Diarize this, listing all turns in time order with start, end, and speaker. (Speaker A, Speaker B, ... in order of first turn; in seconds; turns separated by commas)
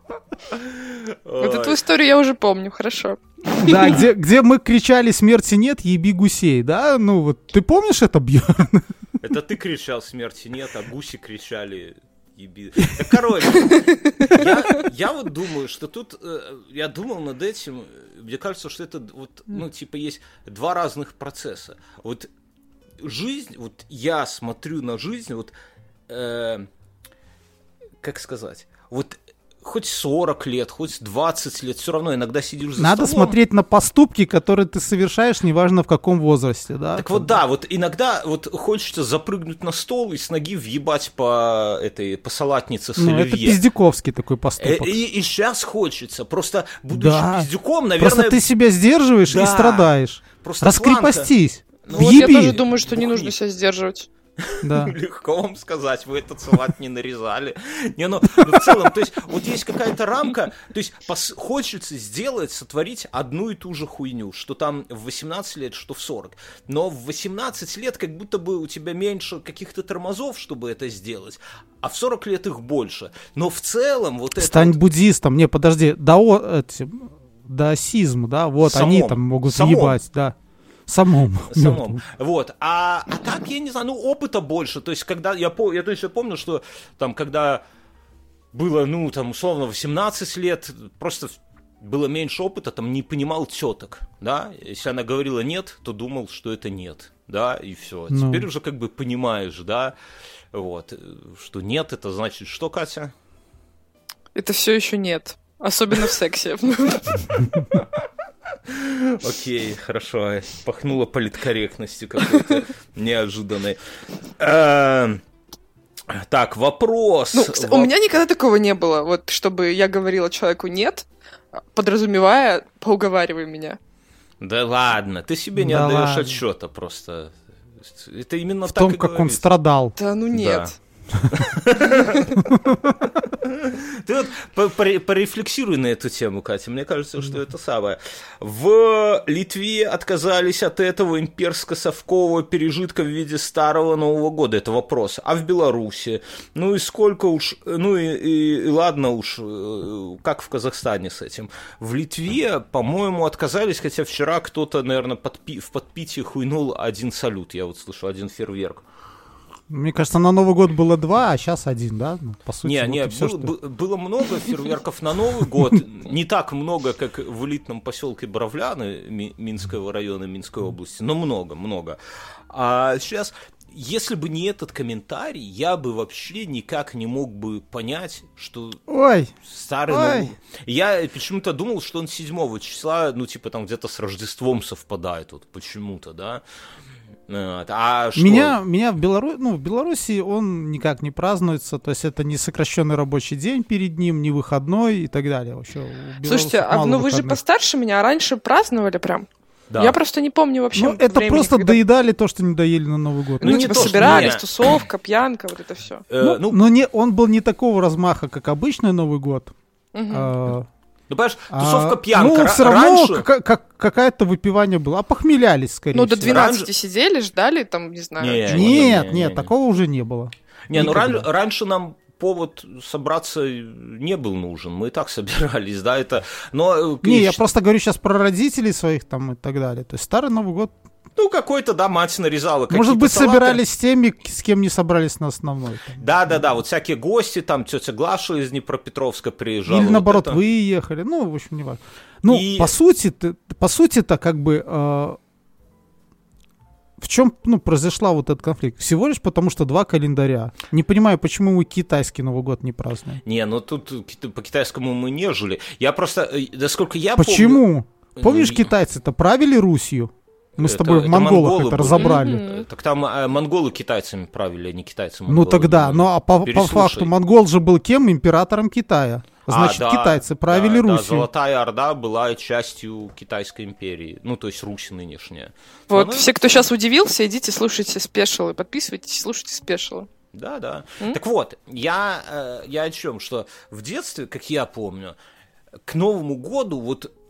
Speaker A: 0.5-1.8, Speaker B: 1.4-4.0, Speaker C: 3.6-8.9, Speaker A: 9.2-22.3, Speaker B: 13.8-14.3, Speaker A: 23.0-25.5, Speaker A: 26.1-26.7, Speaker A: 28.0-33.4, Speaker C: 32.8-37.4, Speaker A: 37.0-43.6, Speaker C: 43.0-45.0, Speaker A: 44.6-48.4, Speaker C: 46.9-52.6, Speaker A: 49.3-51.3, Speaker A: 51.8-53.4, Speaker B: 51.9-54.1, Speaker A: 54.4-74.8, Speaker C: 54.6-55.0, Speaker C: 58.4-58.7, Speaker C: 74.4-80.4, Speaker A: 78.6-80.0, Speaker C: 80.9-82.0, Speaker A: 81.5-87.6, Speaker A: 88.5-99.9, Speaker C: 98.1-98.5, Speaker A: 100.5-103.1, Speaker B: 104.3-107.3, Speaker A: 108.7-113.8, Speaker A: 114.4-115.2, Speaker A: 116.1-117.9, Speaker B: 117.3-123.8, Speaker A: 124.4-129.4, Speaker C: 125.6-126.4, Speaker C: 128.7-129.9, Speaker B: 130.0-130.8, Speaker A: 130.3-132.4, Speaker B: 132.0-132.3, Speaker A: 133.3-158.8, Speaker C: 159.7-163.5, Speaker A: 162.6-172.0, Speaker A: 172.5-178.8, Speaker C: 178.9-179.3, Speaker A: 179.4-186.4, Speaker C: 179.9-180.3, Speaker A: 187.3-188.6, Speaker C: 188.2-197.4, Speaker B: 196.2-199.3, Speaker A: 199.7-200.0, Speaker B: 199.8-201.8, Speaker C: 200.8-204.3, Speaker A: 203.4-204.4, Speaker B: 203.4-206.0, Speaker A: 206.1-206.6, Speaker C: 206.2-209.5, Speaker B: 209.9-210.4, Speaker C: 210.1-210.7, Speaker A: 211.1-213.3, Speaker C: 211.5-216.4, Speaker B: 215.9-218.8, Speaker A: 216.2-216.7, Speaker A: 218.2-219.5, Speaker C: 218.5-221.3, Speaker A: 220.7-227.4, Speaker C: 227.0-230.7, Speaker A: 231.2-233.6, Speaker C: 232.7-236.0, Speaker A: 236.0-240.4, Speaker C: 239.7-245.2, Speaker A: 242.3-242.7, Speaker C: 247.0-253.2, Speaker A: 253.2-257.6, Speaker C: 257.2-262.4, Speaker A: 258.2-258.7, Speaker A: 260.6-267.1, Speaker B: 261.9-262.6, Speaker C: 265.3-271.3, Speaker A: 269.5-276.3, Speaker B: 275.9-280.1, Speaker A: 280.3-285.1, Speaker A: 285.9-287.1